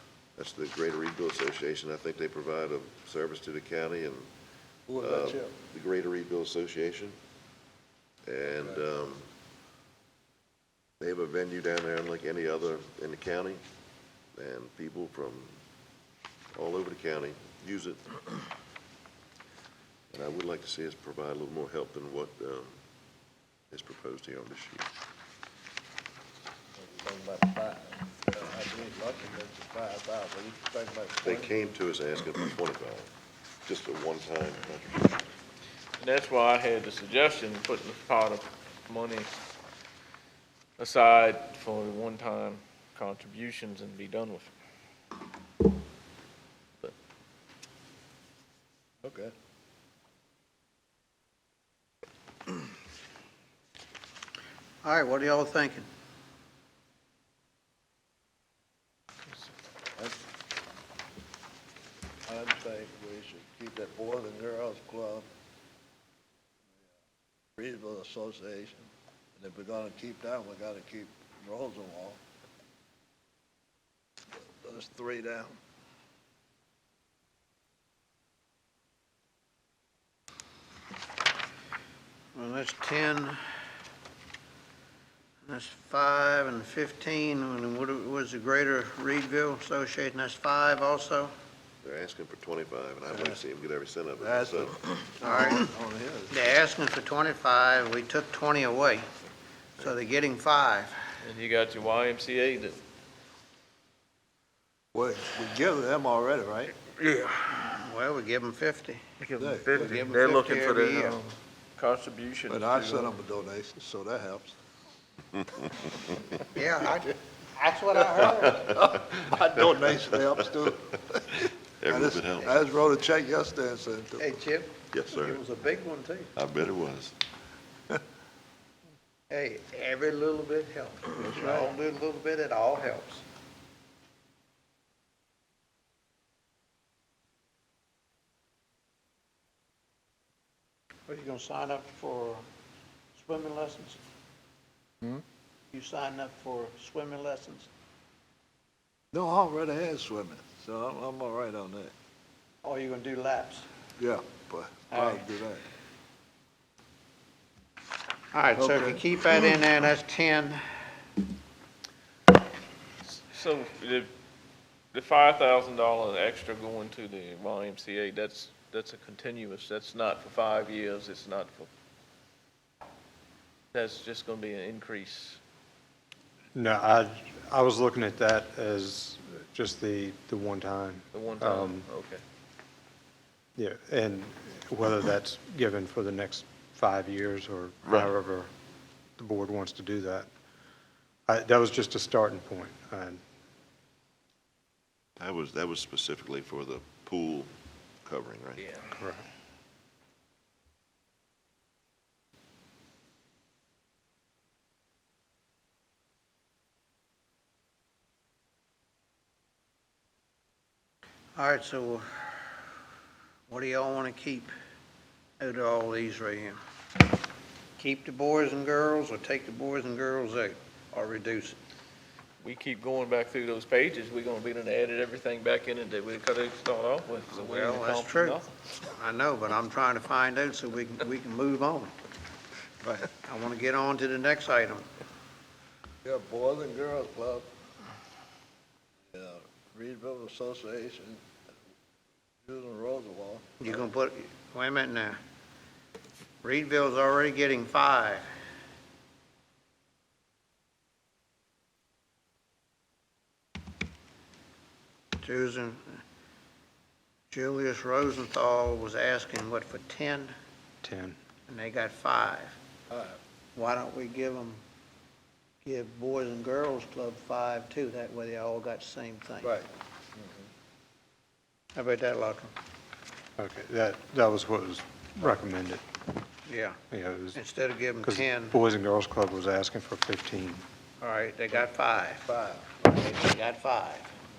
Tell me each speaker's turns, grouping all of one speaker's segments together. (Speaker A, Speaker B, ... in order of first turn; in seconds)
Speaker A: 0.4-4.3, 5.0-7.2, 8.3-9.3, 11.0-13.6, 14.3-15.6, 16.5-18.2, 20.1-22.8, 23.7-24.9, 31.2-33.1, 33.7-35.2, 91.8-94.8, 121.8-122.5, 124.9-125.4, 126.4-127.2, 195.2-197.5, 198.0-198.6
Speaker B: 4.9-5.6, 26.8-31.5, 49.0-49.3, 62.3-65.3, 67.6-72.2, 74.6-75.6, 93.0-93.4, 94.2-96.5, 104.9-106.8, 109.4-110.0, 112.5-114.5, 118.8-121.3, 121.9-124.3, 131.3-131.7, 149.1-151.9, 154.0-155.7, 158.6-159.0, 232.8-233.1, 236.1-237.5, 239.1-241.2, 242.4-243.8, 262.9-263.2, 269.4-270.4, 282.3-282.8
Speaker C: 36.0-39.3, 40.8-44.5, 101.2-102.8, 107.1-107.3, 109.2-113.2, 163.1-164.1, 164.9-171.7, 173.7-175.4, 181.1-182.2, 198.6-198.8, 222.4-228.5
Speaker D: 54.8-55.9, 82.3-83.4, 85.5-91.3, 95.2-95.7, 96.3-99.1, 99.8-101.0, 107.5-111.2, 116.5-118.8, 124.2-126.3, 129.3-133.2, 141.1-142.4, 143.2-144.0, 145.7-147.7, 152.6-153.7, 154.9-155.2, 158.3-160.6, 211.4-212.5, 213.5-214.5, 215.4-216.6, 217.8-221.6, 227.3-231.9, 233.2-234.9, 243.6-245.2, 246.4-248.3, 255.2-256.0, 257.3-260.3, 261.5-262.6, 263.6-264.6, 265.6-269.6, 271.8-272.5, 276.5-276.8, 277.3-278.6, 281.0-282.3, 282.8-284.1
Speaker E: 176.6-181.9, 183.6-188.5, 189.2-190.3, 191.3-193.2, 199.0-199.3, 260.8-261.2, 273.4-275.8, 276.9-277.4, 278.0-280.6